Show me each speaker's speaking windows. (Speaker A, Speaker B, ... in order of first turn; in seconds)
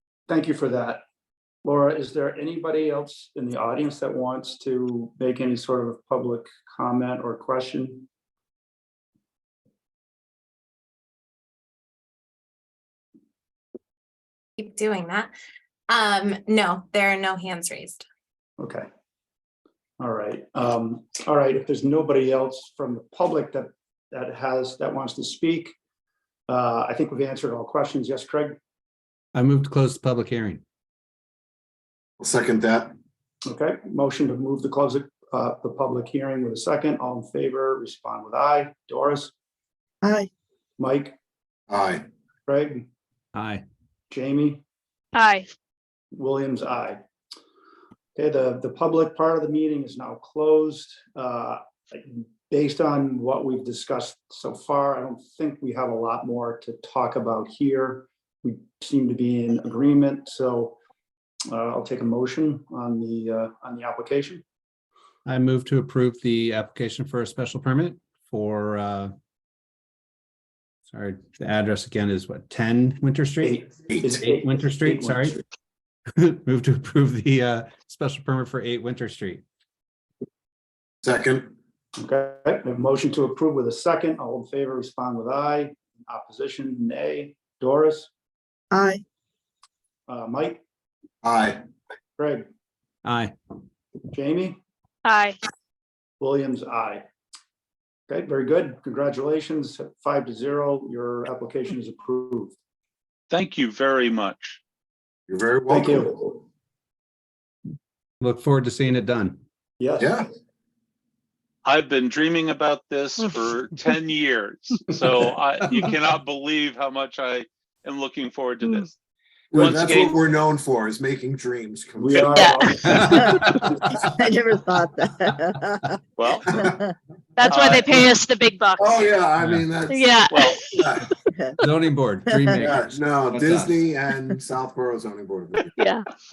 Speaker A: 0.3-1.0, 1.6-8.1, 18.6-18.9, 20.0-25.7, 26.5-28.6, 33.5-39.3, 40.8-41.1, 42.5-42.9, 44.1-44.6, 46.1-47.0, 48.1-60.8, 61.5-64.4, 73.4-75.4, 82.0-88.1, 90.1-90.6, 92.2-92.4, 94.1-94.6, 96.2-97.0, 98.1-102.5, 105.7-106.4, 109.8-110.1, 122.0-123.4
Speaker B: 14.6-15.3, 15.9-18.0
Speaker C: 29.3-30.6, 43.3-43.6, 65.2-69.1, 70.9-75.4, 76.2-79.4, 93.0-93.3, 108.2-109.4, 122.7-123.8, 129.4-129.7, 131.6-133.8
Speaker D: 32.2-32.9, 41.7-42.0, 81.0-81.5, 91.2-91.6, 105.3-106.1, 110.0-110.3, 119.5-122.5, 128.8-130.1, 130.6-131.1, 132.6-135.7
Speaker E: 40.0-40.3, 88.7-89.0, 123.0-126.0, 126.6-126.9, 131.3-131.5, 132.3-132.6
Speaker F: 45.1-45.5, 95.0-95.4, 127.3-129.1, 129.9-130.3, 135.8-136.0
Speaker G: 103.3-104.6, 111.6-118.9, 119.5-120.3, 126.2-126.6, 127.5-127.9, 130.3-130.6